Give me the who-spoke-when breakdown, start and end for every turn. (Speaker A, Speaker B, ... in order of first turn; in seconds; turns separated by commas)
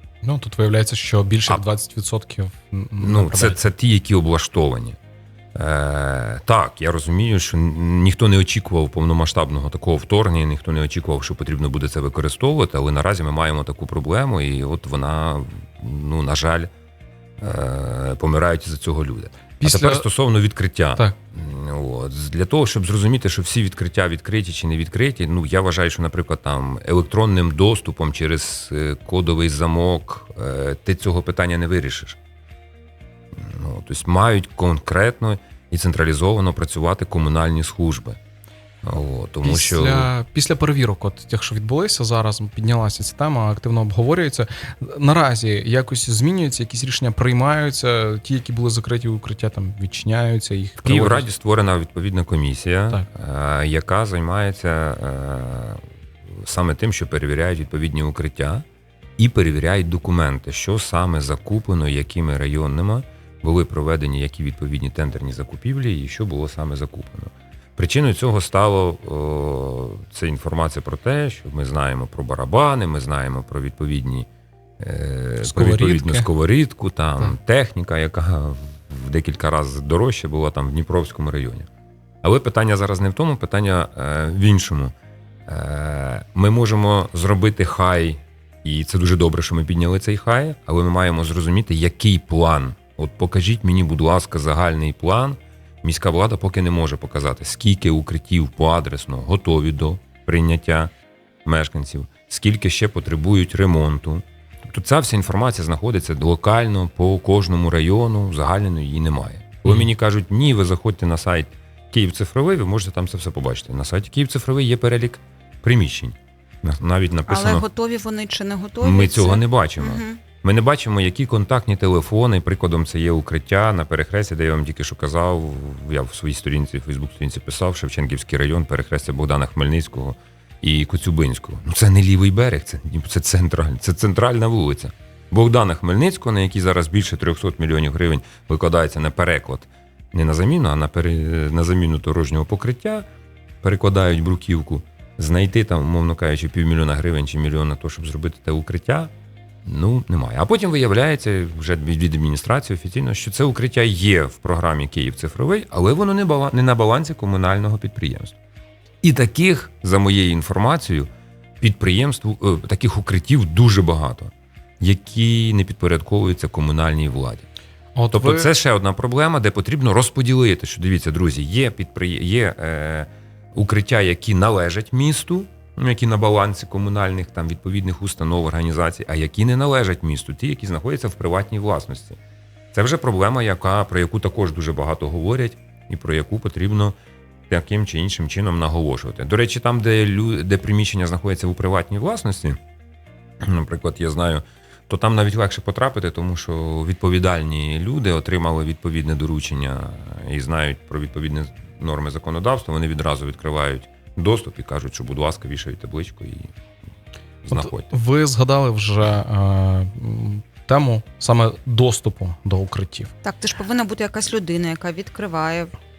Speaker A: 0.2-3.6, Speaker B: 3.0-5.0, Speaker B: 5.5-16.7, Speaker B: 17.4-32.2, Speaker A: 19.6-20.1, Speaker B: 33.3-38.2, Speaker B: 38.8-40.1, Speaker A: 39.4-51.3, Speaker B: 50.8-58.6, Speaker B: 59.2-74.3, Speaker B: 74.8-81.7, Speaker A: 75.4-76.3, Speaker B: 82.2-84.9, Speaker B: 85.5-100.9, Speaker B: 101.5-117.7, Speaker C: 117.3-120.2, Speaker B: 118.8-143.1, Speaker B: 143.6-149.1, Speaker B: 149.6-158.3, Speaker B: 159.0-161.1, Speaker B: 161.6-167.5, Speaker A: 167.9-168.5, Speaker B: 168.1-182.2, Speaker B: 182.7-187.0, Speaker B: 187.5-192.6, Speaker B: 193.4-206.5, Speaker B: 207.4-207.9, Speaker A: 207.5-213.1, Speaker C: 213.2-215.8